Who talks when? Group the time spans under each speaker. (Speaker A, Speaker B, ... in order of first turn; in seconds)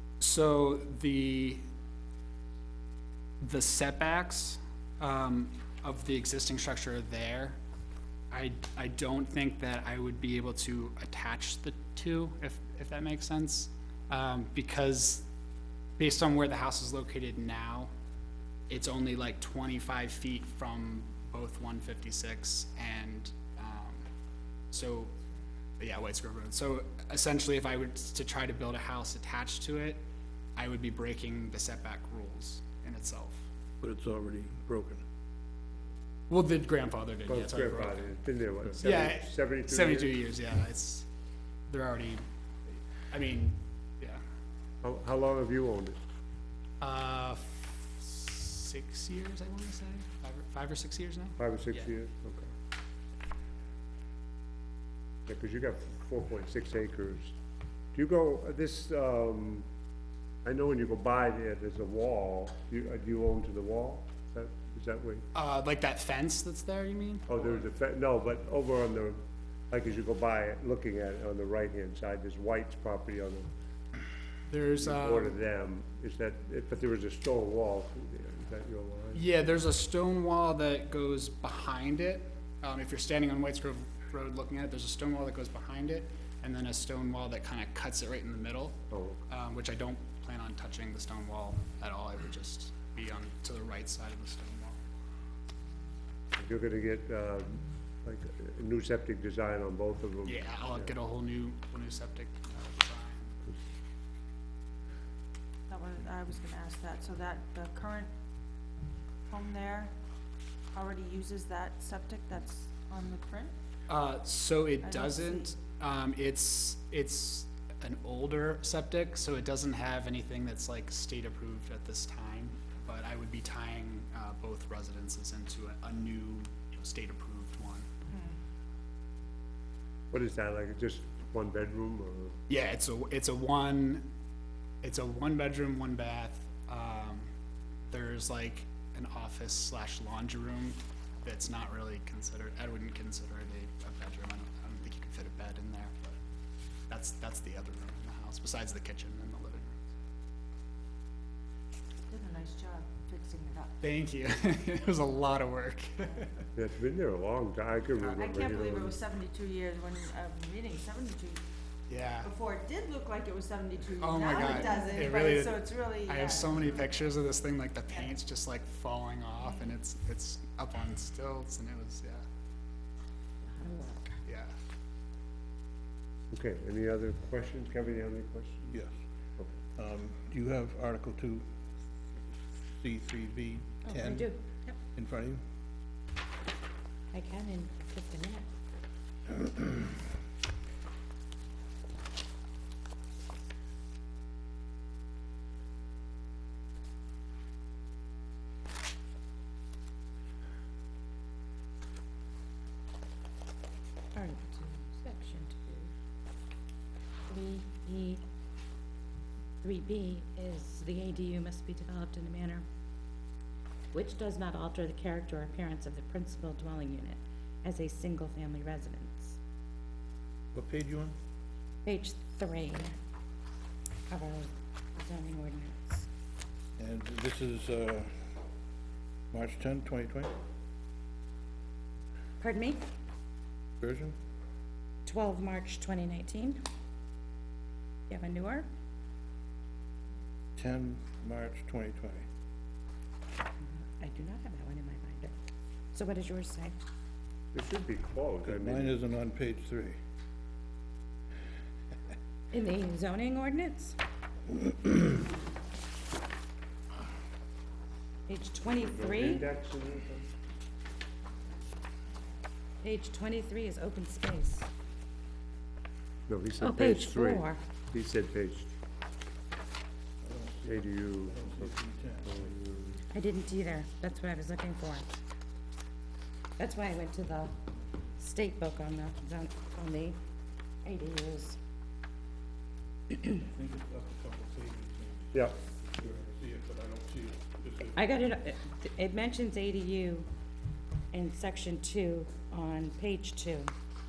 Speaker A: 0.2-1.6, 3.4-7.6, 8.3-15.3, 16.0-17.9, 18.7-24.1, 24.7-25.1, 25.8-30.0, 30.6-33.5, 36.3-38.1, 38.7-41.1, 41.7-42.2, 43.1-44.2, 46.8-51.9, 65.3-67.7, 74.5-75.4, 79.1-94.8, 100.2-103.4, 113.9-127.9, 132.5-134.1, 134.8-137.3, 137.9-146.2, 146.9-149.8, 153.8-156.3, 161.9-162.3, 164.0-172.2, 174.2-174.5
Speaker B: 33.8-35.0, 178.7-179.0, 179.8-181.5, 182.7-184.4, 184.9-185.4, 220.5-221.2, 226.8-228.1, 229.3-230.4, 233.8-234.2, 240.6-242.3, 248.4-250.0, 270.2-272.5, 283.1-288.0
Speaker C: 37.3-40.1, 44.8-46.0, 51.4-52.5, 55.3-57.4, 57.9-59.7, 60.4-65.2, 67.3-73.5, 74.8-79.2, 88.9-89.2, 96.4-100.9, 130.1-132.4, 156.6-159.0, 176.3-178.7, 247.5-248.9, 258.8-260.3, 266.3-268.7, 270.7-271.7, 272.2-273.0
Speaker D: 105.7-108.1, 109.3-109.9, 110.7-113.5, 114.8-115.5, 128.1-128.3, 152.1-153.7, 158.2-161.4, 162.2-166.8
Speaker E: 164.4-165.0, 173.5-174.2, 183.8-184.8, 187.1-188.5, 204.2-205.9, 207.3-208.2, 209.6-212.7, 213.9-219.4, 221.8-222.9, 224.1-226.1, 232.4-232.8, 235.1-236.6, 238.1-238.7, 243.8-245.3, 245.9-246.8, 252.5-254.0, 258.3-259.5, 262.8-264.7, 266.6-267.6, 273.1-275.2, 276.6-277.5, 278.2-280.2, 280.8-281.6, 288.0-290.3, 291.1-293.7